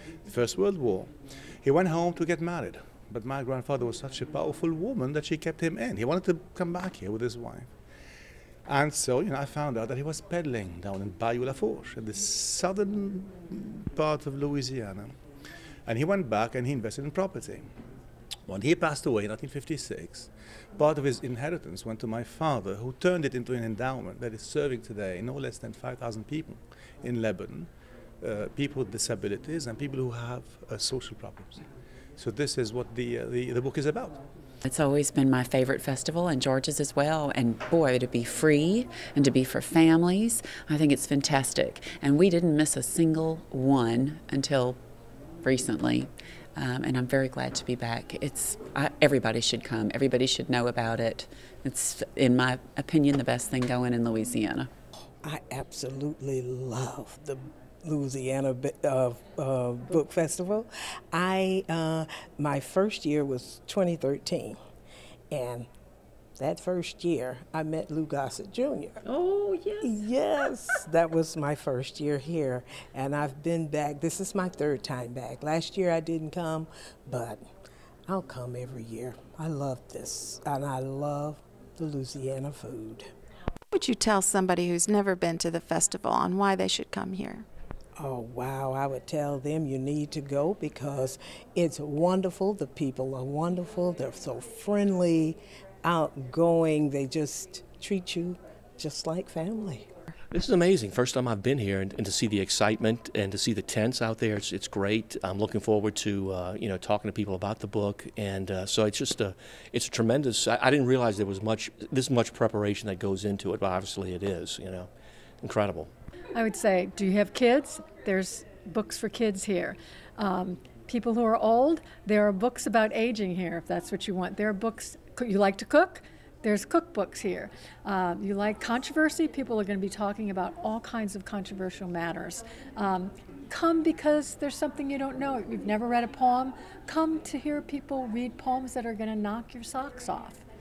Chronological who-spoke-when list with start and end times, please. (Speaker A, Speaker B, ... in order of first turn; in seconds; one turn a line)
Speaker A: 0.2-7.8
Speaker A: 8.7-15.2
Speaker A: 15.9-17.7
Speaker A: 18.5-27.7
Speaker A: 28.2-31.7
Speaker A: 32.2-34.3
Speaker B: 34.6-44.8
Speaker B: 45.4-54.7
Speaker C: 55.2-64.6
Speaker C: 65.3-65.7
Speaker C: 66.4-69.1
Speaker C: 69.8-77.5
Speaker C: 78.1-83.1
Speaker D: 83.7-87.5
Speaker C: 88.0-99.9
Speaker E: 100.3-114.9
Speaker E: 115.4-115.9
Speaker F: 116.3-140.4